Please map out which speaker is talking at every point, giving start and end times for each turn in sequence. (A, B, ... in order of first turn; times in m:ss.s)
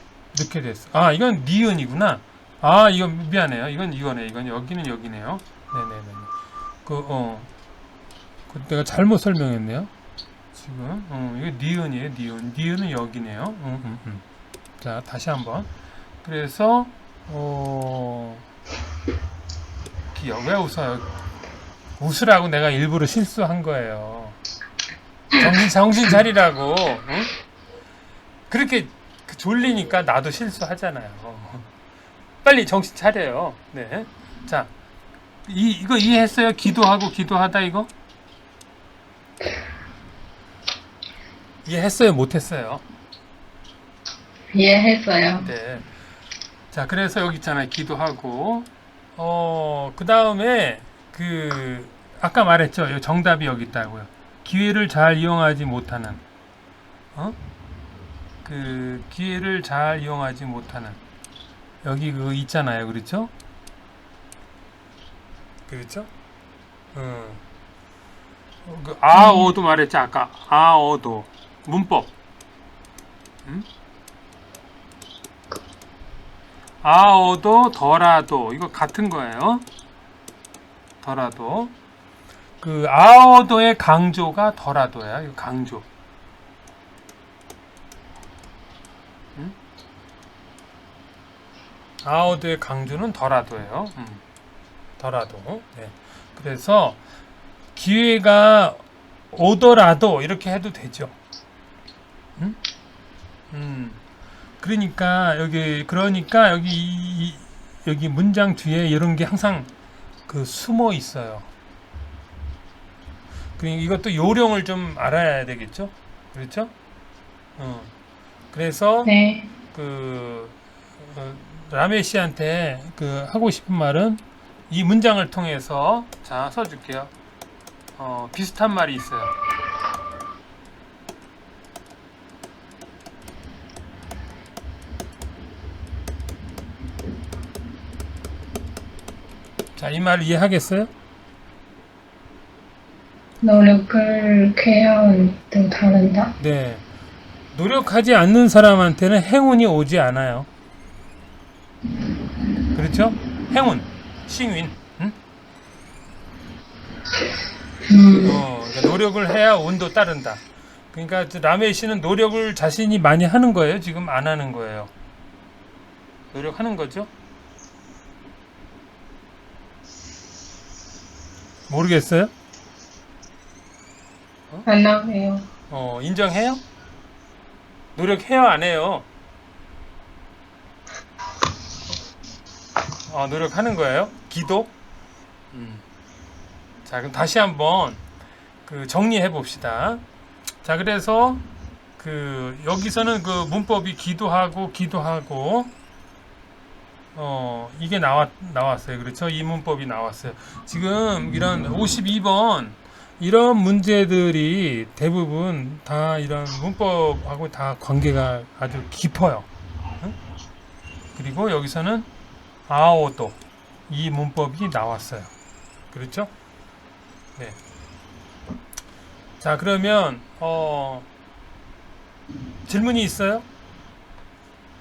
0:00.3-0:06.3 A
0:06.8-0:07.5 A
0:08.5-0:09.9 A
0:10.6-0:14.2 A
0:14.8-0:15.7 A
0:16.2-0:18.4 A
0:20.1-0:21.1 A
0:22.0-0:24.4 A
0:25.4-0:27.3 A
0:28.5-0:31.7 A
0:32.4-0:34.7 A
0:35.4-0:37.9 A
0:41.6-0:42.8 A
0:44.5-0:45.5 B
0:45.4-0:45.9 A
0:46.7-0:56.2 A
0:58.4-1:01.0 A
1:01.8-1:03.3 A
1:05.7-1:06.1 A
1:06.9-1:07.4 A
1:08.6-1:12.1 A
1:09.1-1:09.5 B
1:16.8-1:19.6 A
1:21.0-1:21.7 A
1:22.6-1:25.9 A
1:32.0-1:34.2 A
1:35.0-1:37.0 A
1:37.8-1:38.8 A
1:39.3-1:41.2 A
1:43.5-1:44.0 A
1:44.6-1:49.7 A
1:50.3-1:51.5 A
1:53.6-1:56.7 A
1:57.6-1:57.9 A
1:58.5-1:59.1 A
1:59.0-1:59.5 B
1:59.7-2:07.1 A
2:08.0-2:09.4 A
2:19.8-2:20.9 A
2:23.4-2:26.3 B
2:26.4-2:26.8 A
2:27.5-2:30.5 A
2:32.7-2:35.2 A
2:37.9-2:38.4 B
2:38.2-2:44.9 A
2:46.3-2:47.1 A
2:51.7-2:52.3 A
2:54.6-2:55.5 B
2:55.7-2:56.6 A
2:58.0-2:59.1 A
3:03.1-3:04.7 A
3:05.5-3:05.8 A
3:06.8-3:08.0 A
3:08.6-3:10.0 A
3:10.6-3:11.4 A
3:12.0-3:15.7 A
3:17.1-3:29.5 A
3:31.2-3:32.1 A
3:32.7-3:35.3 A
3:35.9-3:36.3 A
3:39.4-3:41.1 A
3:42.7-3:43.5 A